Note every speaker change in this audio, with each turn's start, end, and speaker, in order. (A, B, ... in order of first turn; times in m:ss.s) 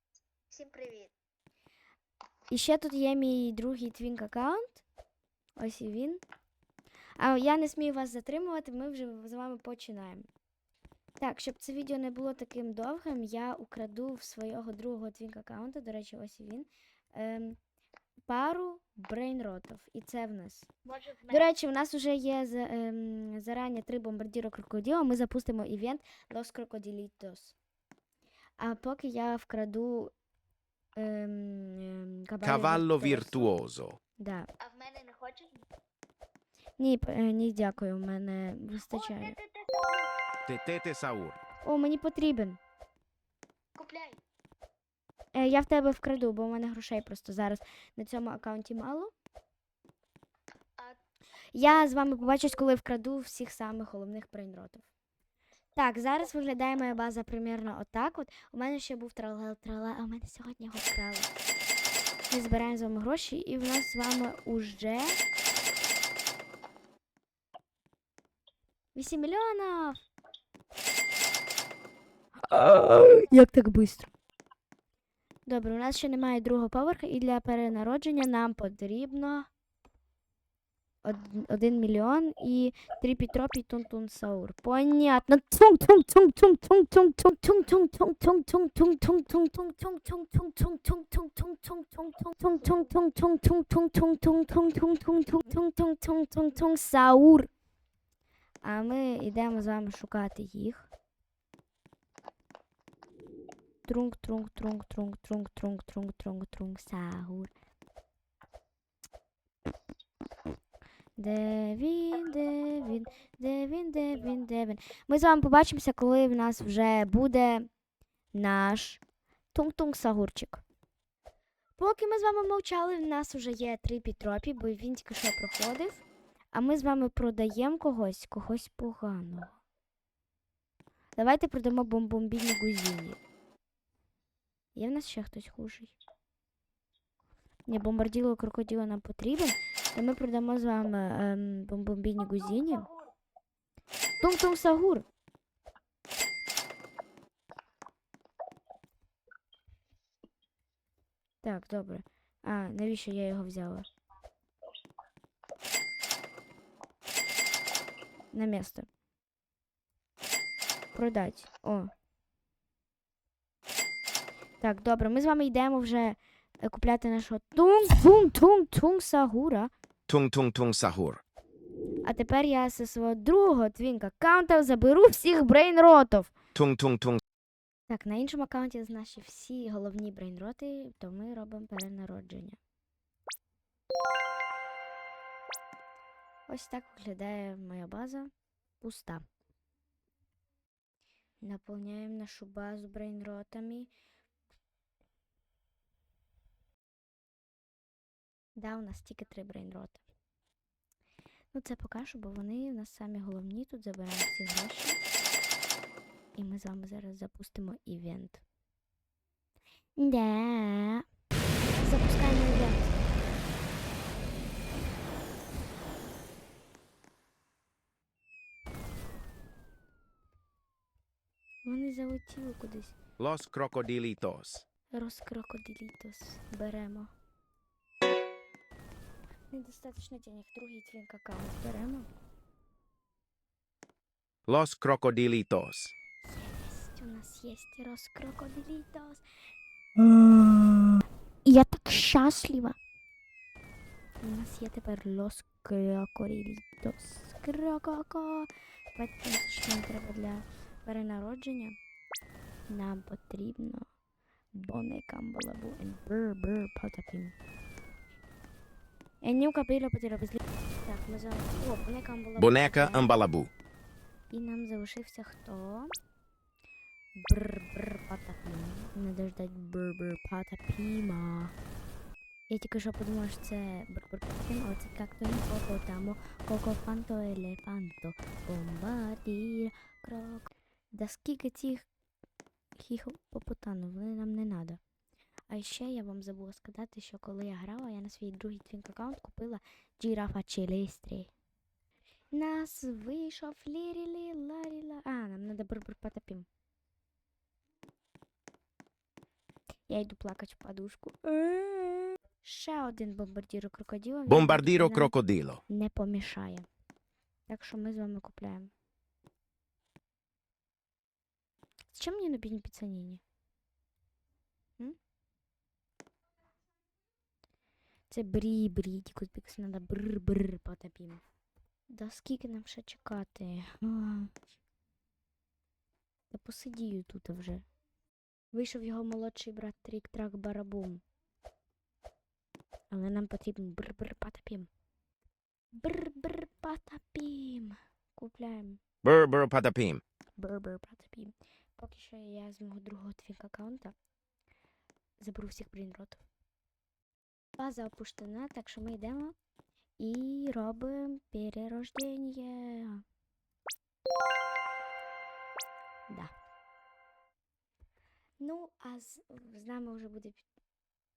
0:00.5-0:01.1 A
0:02.5-0:04.8 B
0:05.6-0:06.2 B
0:07.2-0:10.3 B
0:11.2-0:17.6 B
0:18.3-0:20.7 B
0:21.2-0:27.6 B
0:28.6-0:30.1 B
0:31.0-0:33.5 B
0:32.4-0:34.0 C
0:34.2-0:34.5 B
0:34.6-0:35.5 A
0:36.8-0:39.4 B
0:38.9-0:40.1 A
0:40.4-0:41.4 C
0:41.6-0:42.6 B
0:43.8-0:44.2 A
0:45.3-0:49.1 B
0:51.5-0:54.9 B
0:55.8-1:01.3 B
1:02.3-1:05.2 B
1:08.9-1:10.0 B
1:12.4-1:14.1 B
1:15.4-1:19.5 B
1:21.0-1:37.5 B
1:38.6-1:40.9 B
1:43.8-1:47.5 B
1:51.2-1:57.7 B
1:58.3-1:59.0 B
1:59.5-2:00.6 B
2:01.8-2:09.6 B
2:11.2-2:13.2 B
2:14.7-2:16.0 B
2:17.7-2:22.9 B
2:24.2-2:25.0 B
2:31.4-2:33.8 B
2:38.3-2:38.9 B
2:40.9-2:41.9 B
2:44.6-2:49.7 B
2:50.1-2:51.2 C
2:52.0-2:56.3 B
2:56.5-2:57.2 C
2:57.9-3:02.6 B
3:06.5-3:09.2 B
3:11.4-3:13.9 B
3:18.6-3:20.0 B
3:21.5-3:25.0 B
3:26.4-3:28.4 B
3:30.0-3:31.0 B
3:31.7-3:33.0 B
3:41.6-3:42.9 B
3:43.2-3:44.6 C
3:44.9-3:47.1 B
3:49.5-3:52.1 B
3:54.5-3:55.9 C
3:56.2-3:59.2 B
4:00.0-4:02.8 B
4:04.2-4:11.8 B
4:12.7-4:13.9 B
4:14.5-4:17.3 B
4:19.2-4:23.1 B
4:22.4-4:23.5 C
4:24.3-4:25.9 B
4:27.2-4:31.5 B
4:32.5-4:41.9 B
4:42.8-4:44.8 B
4:45.5-4:51.3 B
4:52.3-4:56.5 B
4:59.9-5:05.1 B
5:04.3-5:05.6 C
5:05.7-5:06.6 B
5:07.5-5:08.7 B
5:11.9-5:13.2 B
5:18.1-5:21.2 B
5:21.9-5:24.3 B
5:26.3-5:27.6 B
5:28.5-5:31.0 B
5:32.9-5:34.7 B
5:35.7-5:38.8 B
5:39.0-5:40.0 C
5:40.4-5:43.9 B
5:45.2-5:46.2 B
5:47.6-5:49.4 B
5:50.0-5:53.0 B
5:58.4-6:00.4 B